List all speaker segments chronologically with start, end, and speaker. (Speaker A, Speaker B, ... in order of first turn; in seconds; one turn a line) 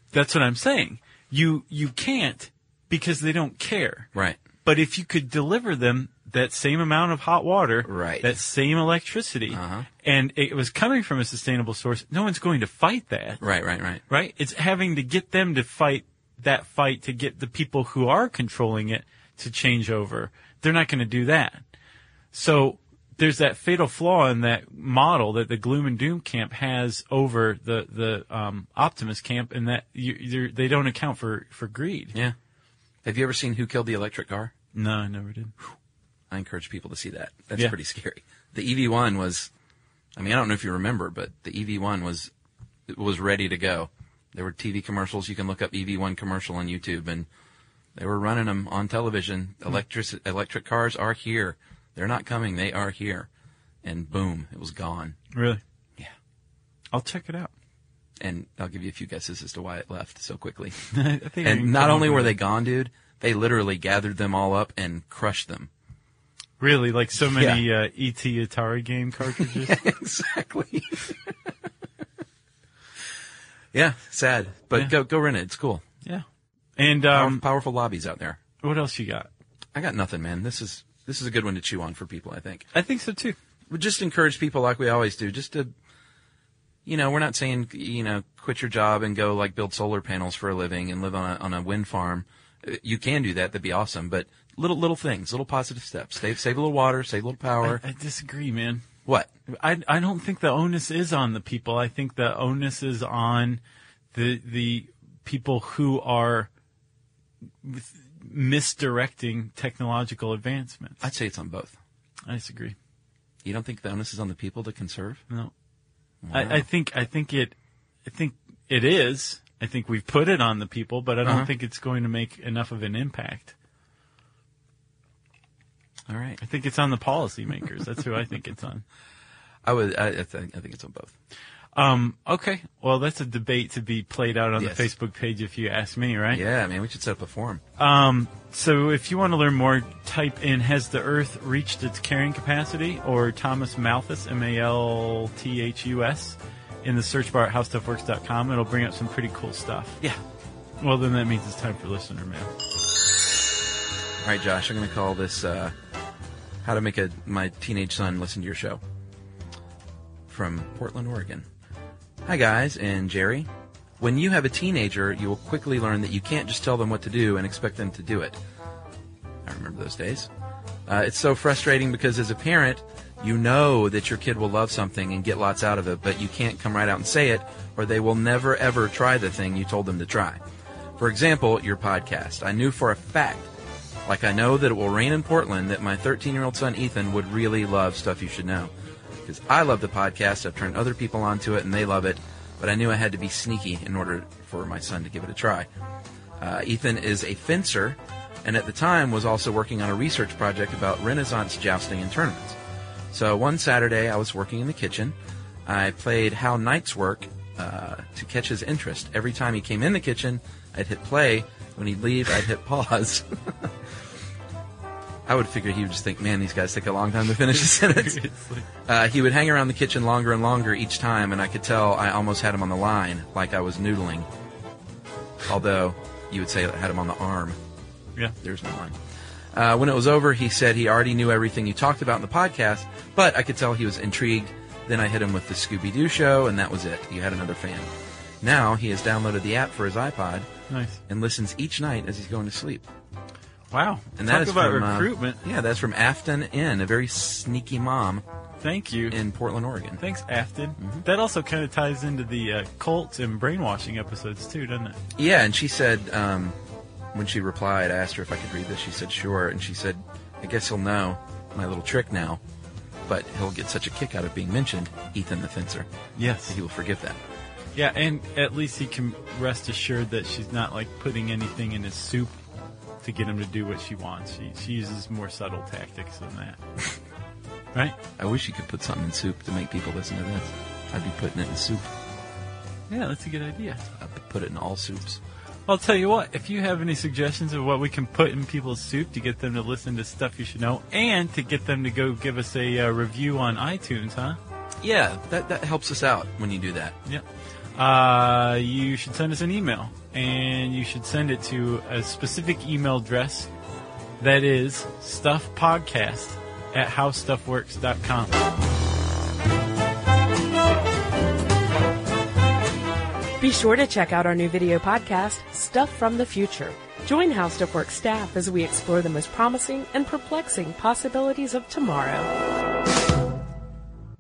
Speaker A: 0.1-4.1
Speaker A: 4.7-13.4
Speaker B: 7.9-8.3
Speaker B: 9.5-9.9
Speaker B: 13.4-14.0
Speaker A: 14.1-21.6
Speaker A: 22.3-32.1
Speaker B: 33.0-34.5
Speaker A: 34.7-35.6
Speaker B: 36.3-39.5
Speaker B: 40.2-42.3
Speaker B: 42.9-47.3
Speaker B: 48.0-53.3
Speaker B: 53.8-55.2
Speaker A: 55.3-55.6
Speaker A: 56.9-57.5
Speaker B: 58.2-60.8
Speaker A: 60.9-62.3
Speaker B: 61.4-65.7
Speaker A: 66.6-69.8
Speaker B: 67.2-67.6
Speaker B: 69.4-71.3
Speaker B: 73.7-75.8
Speaker A: 76.8-77.4
Speaker B: 77.1-78.4
Speaker A: 78.6-79.3
Speaker B: 79.8-82.7
Speaker A: 82.7-83.4
Speaker B: 83.7-85.7
Speaker B: 86.8-97.8
Speaker A: 97.6-98.8
Speaker B: 99.1-99.3
Speaker A: 99.5-103.6
Speaker A: 104.1-106.5
Speaker A: 107.6-111.0
Speaker B: 111.0-111.8
Speaker A: 112.3-112.8
Speaker B: 113.4-115.2
Speaker B: 116.2-116.7
Speaker A: 116.3-117.5
Speaker A: 118.1-123.5
Speaker B: 121.2-121.5
Speaker B: 126.1-126.4
Speaker A: 126.4-128.8
Speaker B: 129.6-131.1
Speaker A: 131.8-136.4
Speaker B: 134.6-134.9
Speaker B: 136.3-137.6
Speaker A: 137.8-150.0
Speaker A: 150.8-152.5
Speaker B: 154.2-155.8
Speaker B: 156.6-158.8
Speaker B: 160.3-161.5
Speaker B: 162.2-163.5
Speaker B: 164.0-168.4
Speaker B: 169.5-170.3
Speaker B: 170.9-180.4
Speaker B: 181.0-183.5
Speaker B: 184.1-188.7
Speaker B: 189.2-195.7
Speaker B: 196.4-202.6
Speaker B: 203.1-205.1
Speaker B: 205.7-213.7
Speaker B: 215.3-218.2
Speaker A: 217.5-218.7
Speaker B: 218.8-224.3
Speaker B: 225.4-227.6
Speaker B: 228.4-229.0
Speaker B: 229.5-237.9
Speaker B: 238.4-240.5
Speaker A: 240.7-241.0
Speaker B: 241.1-242.9
Speaker A: 243.7-245.4
Speaker B: 244.2-248.2
Speaker A: 248.6-249.2
Speaker B: 249.1-250.0
Speaker A: 250.0-255.0
Speaker B: 255.2-256.6
Speaker B: 257.1-262.4
Speaker B: 263.1-265.9
Speaker A: 266.2-266.6
Speaker B: 266.5-267.2
Speaker A: 267.8-272.4
Speaker A: 273.0-276.6
Speaker B: 278.2-281.9
Speaker A: 282.9-283.9
Speaker B: 284.0-285.2
Speaker A: 285.7-294.4
Speaker B: 294.8-297.0
Speaker A: 297.8-303.5
Speaker A: 304.2-308.4
Speaker C: 313.4-322.3